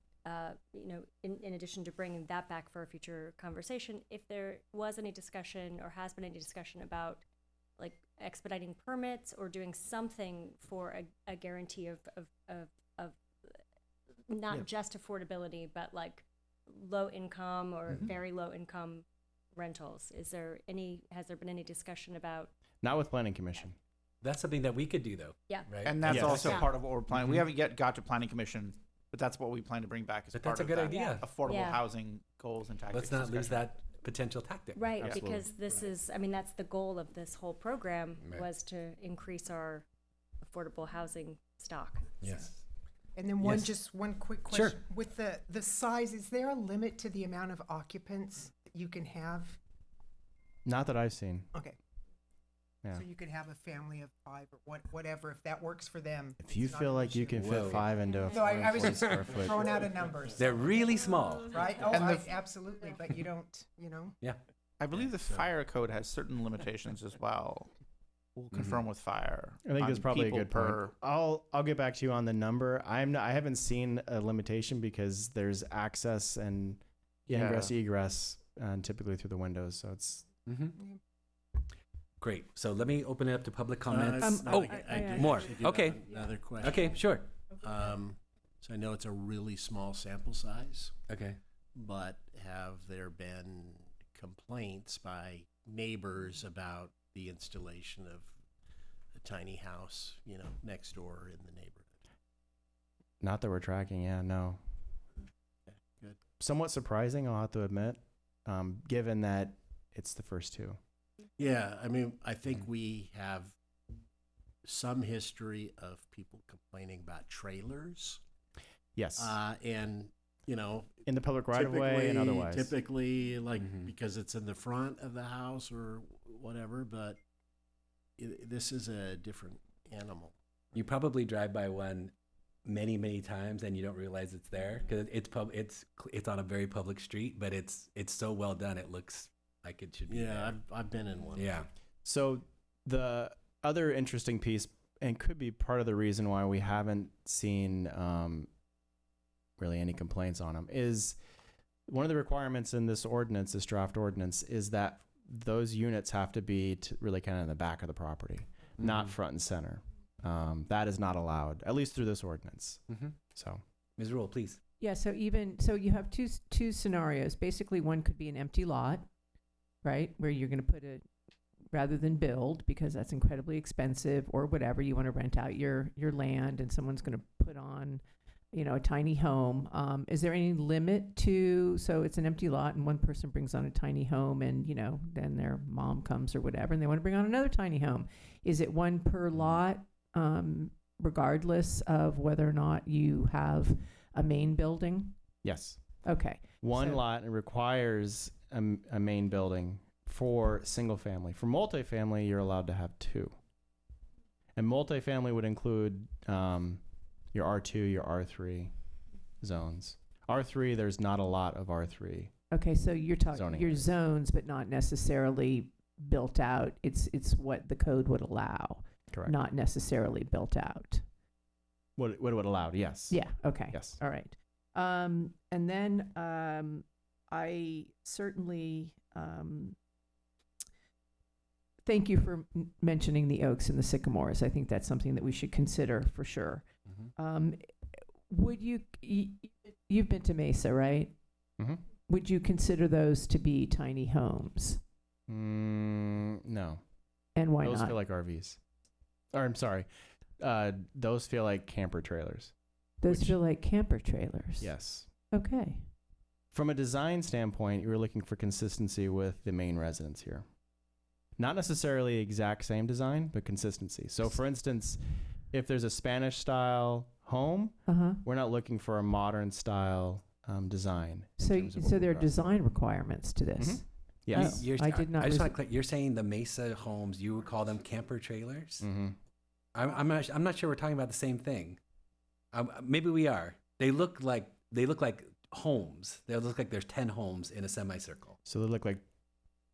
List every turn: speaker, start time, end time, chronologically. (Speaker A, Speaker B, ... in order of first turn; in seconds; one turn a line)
Speaker A: 0.2-7.2
Speaker A: 7.8-13.2
Speaker A: 14.3-19.0
Speaker A: 19.6-22.5
Speaker B: 22.8-23.8
Speaker C: 24.2-26.3
Speaker A: 25.5-26.7
Speaker D: 25.8-33.6
Speaker B: 26.1-26.6
Speaker C: 27.1-27.4
Speaker C: 30.3-31.3
Speaker A: 30.7-31.8
Speaker C: 32.9-34.9
Speaker A: 34.7-39.9
Speaker B: 35.0-35.5
Speaker A: 40.4-42.2
Speaker C: 42.2-42.6
Speaker E: 43.1-49.6
Speaker C: 43.4-43.8
Speaker C: 44.5-44.8
Speaker B: 50.6-51.5
Speaker E: 52.9-57.6
Speaker B: 56.4-59.6
Speaker C: 57.4-57.9
Speaker E: 58.3-60.9
Speaker F: 59.4-60.6
Speaker C: 60.4-62.3
Speaker E: 61.5-64.2
Speaker D: 64.8-67.7
Speaker F: 65.0-65.5
Speaker D: 68.3-70.9
Speaker B: 69.6-80.2
Speaker D: 77.3-77.6
Speaker C: 80.5-80.8
Speaker C: 82.2-86.0
Speaker F: 83.9-90.9
Speaker G: 84.2-85.3
Speaker C: 86.6-87.3
Speaker C: 91.1-91.4
Speaker F: 91.7-98.3
Speaker F: 99.2-102.0
Speaker B: 103.2-104.6
Speaker F: 105.9-106.2
Speaker B: 106.4-110.8
Speaker F: 111.4-113.5
Speaker F: 114.6-118.2
Speaker B: 118.9-119.4
Speaker F: 119.2-127.2
Speaker B: 121.0-122.7
Speaker C: 123.6-123.9
Speaker F: 128.2-130.3
Speaker C: 130.7-132.1
Speaker C: 132.6-140.6
Speaker F: 140.1-141.6
Speaker C: 141.3-141.7
Speaker B: 142.0-148.5
Speaker B: 149.6-151.2
Speaker B: 151.9-162.8
Speaker C: 158.8-159.1
Speaker C: 162.9-163.2
Speaker B: 163.3-163.6
Speaker C: 164.0-164.6
Speaker G: 164.8-169.1
Speaker G: 169.8-171.1
Speaker G: 171.7-178.0
Speaker G: 178.5-195.1
Speaker B: 195.4-196.0
Speaker G: 196.0-197.0
Speaker B: 196.6-203.3
Speaker B: 204.6-206.8
Speaker B: 207.3-208.7
Speaker B: 209.4-212.3
Speaker G: 212.5-221.0
Speaker B: 213.3-213.9
Speaker B: 219.1-219.3
Speaker B: 222.0-224.0
Speaker G: 223.1-229.8
Speaker G: 231.8-237.7
Speaker G: 238.3-241.1
Speaker G: 242.1-244.8
Speaker B: 245.3-246.8
Speaker G: 247.3-248.0
Speaker B: 247.6-248.6
Speaker B: 249.3-249.9
Speaker B: 250.4-252.5
Speaker G: 253.0-254.8
Speaker B: 253.1-253.4
Speaker B: 254.6-255.1
Speaker G: 255.3-255.9
Speaker B: 256.5-260.4
Speaker B: 261.4-265.0
Speaker B: 265.5-272.4
Speaker G: 267.9-268.2
Speaker G: 271.4-275.6
Speaker B: 273.6-274.7
Speaker C: 274.3-278.9
Speaker B: 278.8-279.2
Speaker C: 279.7-281.8
Speaker C: 282.5-288.4
Speaker B: 288.4-289.0